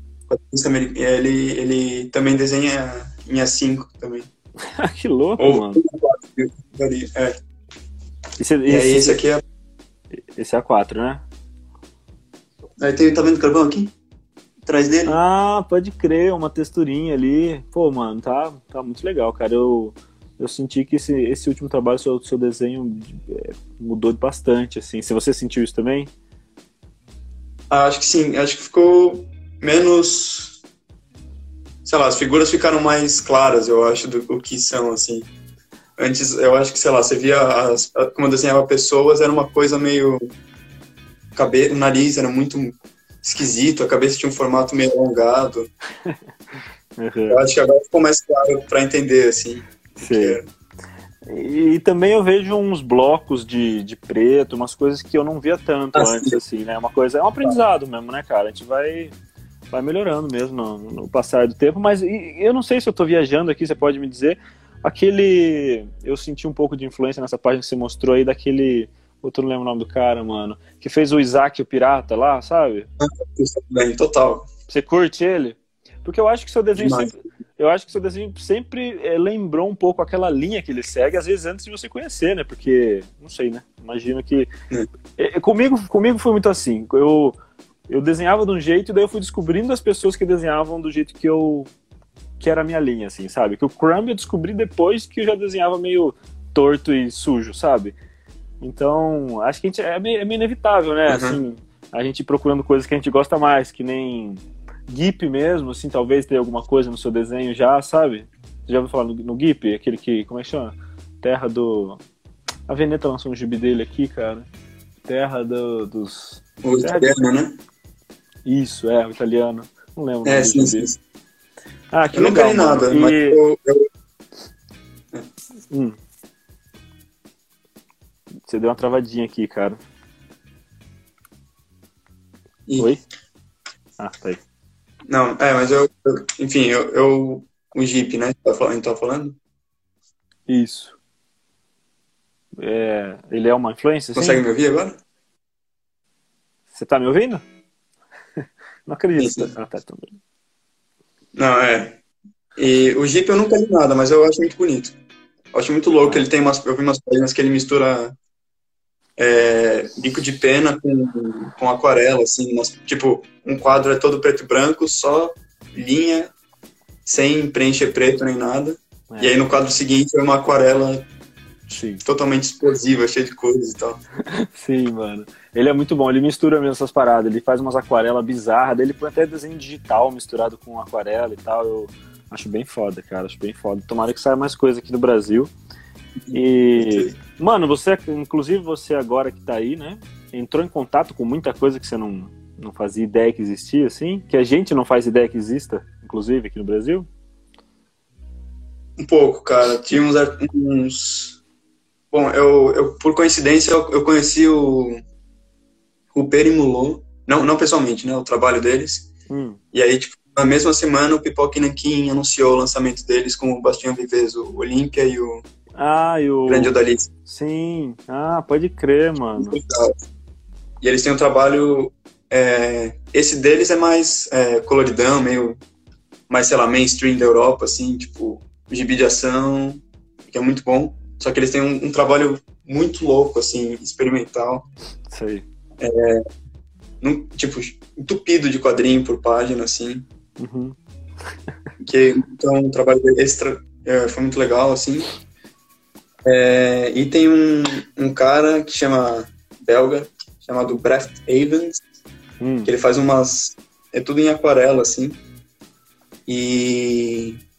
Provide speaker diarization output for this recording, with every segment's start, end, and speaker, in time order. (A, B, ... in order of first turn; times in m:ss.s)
0:00.3-0:04.3 A
0:04.8-0:05.8 B
0:05.4-0:07.4 A
0:08.4-0:09.2 B
0:08.7-0:09.4 A
0:10.4-0:11.2 B
0:12.8-0:13.9 A
0:14.6-0:15.2 A
0:15.1-0:26.1 B
0:27.7-0:30.6 A
0:31.8-0:35.3 A
0:36.0-0:40.2 A
0:41.4-0:45.7 A
0:47.0-0:47.4 B
0:47.3-0:50.5 A
0:50.0-0:50.4 B
0:51.2-0:59.1 B
0:55.9-0:56.4 A
0:59.7-1:12.9 B
1:13.0-1:14.5 A
1:14.7-1:24.5 B
1:16.8-1:17.1 A
1:25.2-1:27.4 B
1:27.9-1:31.7 B
1:32.4-1:37.9 B
1:38.6-1:52.0 B
1:41.1-1:41.4 A
1:52.7-1:54.5 B
1:55.1-1:57.2 B
1:56.6-1:57.6 A
1:58.4-2:00.9 B
2:00.2-2:01.0 A
2:01.9-2:03.4 B
2:02.1-2:03.9 A
2:05.7-2:06.0 B
2:08.5-2:09.8 B
2:12.8-2:13.0 B
2:14.0-2:14.4 B
2:15.1-2:19.4 A
2:20.5-2:21.0 B
2:22.6-2:24.4 B
2:24.1-2:25.0 A
2:26.7-2:27.4 B
2:28.9-2:30.1 B
2:29.2-2:29.5 A
2:31.4-2:32.0 A
2:32.6-2:35.0 A
2:35.5-2:38.1 A
2:39.2-2:46.3 A
2:47.0-2:51.1 A
2:49.1-2:49.4 B
2:51.7-2:52.0 B
2:52.0-2:54.0 A
2:54.3-3:05.5 B
3:06.2-3:07.2 A
3:06.3-3:17.1 B
3:19.0-3:21.4 A
3:22.1-3:25.0 A
3:26.1-3:29.1 A
3:29.3-3:29.6 B
3:29.7-3:35.4 A
3:35.8-3:36.8 B
3:36.5-3:37.1 A
3:37.2-3:39.6 B
3:39.4-3:40.0 A
3:40.8-3:45.6 A
3:46.3-3:54.7 A
3:55.1-3:55.4 B
3:55.8-3:56.2 A
3:57.0-4:00.0 A
4:00.4-4:00.8 B
4:01.8-4:05.1 A
4:06.2-4:11.8 A
4:12.4-4:12.7 B
4:12.6-4:15.2 A
4:16.3-4:17.4 A